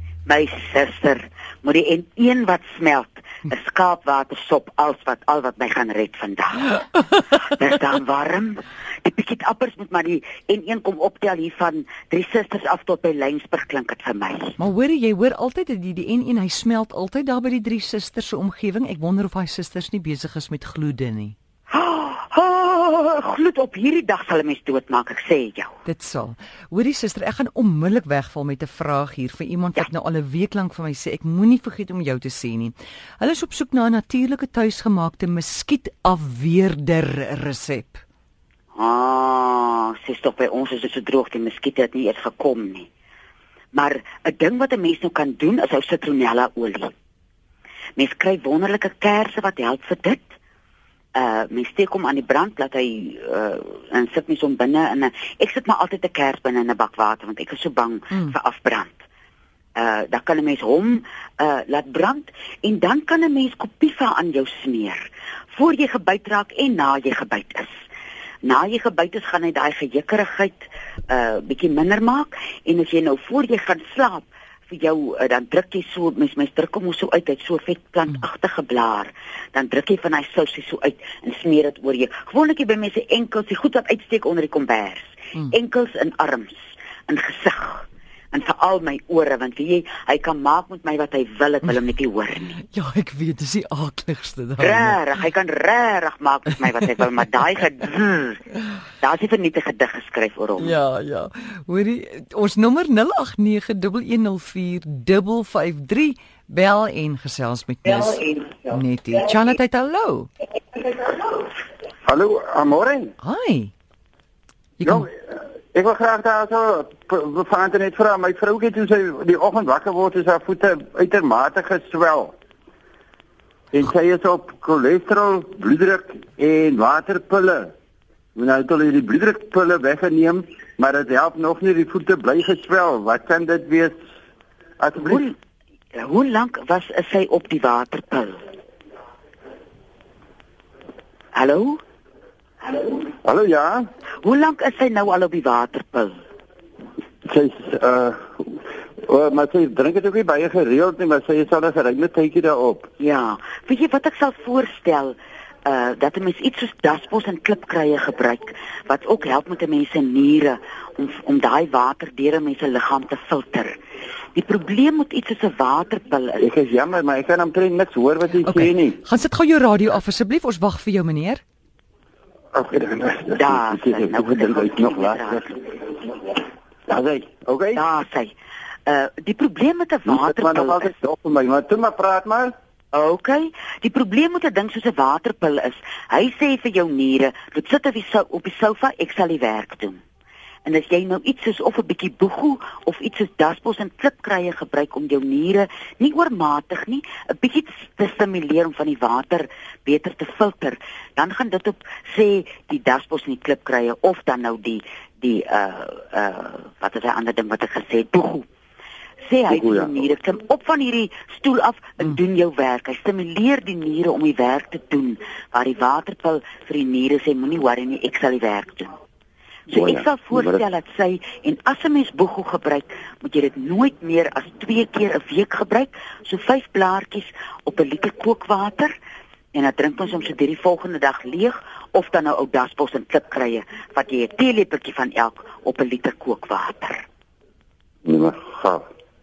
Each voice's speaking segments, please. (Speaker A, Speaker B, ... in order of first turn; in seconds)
Speaker A: 0.2-14.6, 21.7-25.8, 38.8-42.9, 43.7-46.9, 48.0-50.3, 51.1-59.0, 59.8-67.7, 68.4-86.6, 87.1-92.6, 94.6-98.4, 99.0-100.7, 135.0-135.3, 135.9-138.4, 141.3-141.8, 144.2-146.2, 153.0-163.8, 164.3-166.5, 173.3-175.6, 177.8-178.3, 178.9-180.9, 182.9-190.0, 190.7-208.5, 209.2-218.9, 219.7-228.9, 229.5-237.1
Speaker B: 14.6-21.3, 25.9-38.0, 92.6-95.0, 100.6-110.3, 113.2-113.7, 114.8-115.1, 168.4-171.4
Speaker C: 112.0-113.1, 114.8-122.3, 123.7-127.7, 128.4-134.0, 134.8-135.2, 143.2-143.9, 147.3-152.9, 166.4-169.0, 172.5-175.5, 176.9-177.8, 180.1-182.5, 209.5-210.0, 219.7-220.6, 238.1-238.9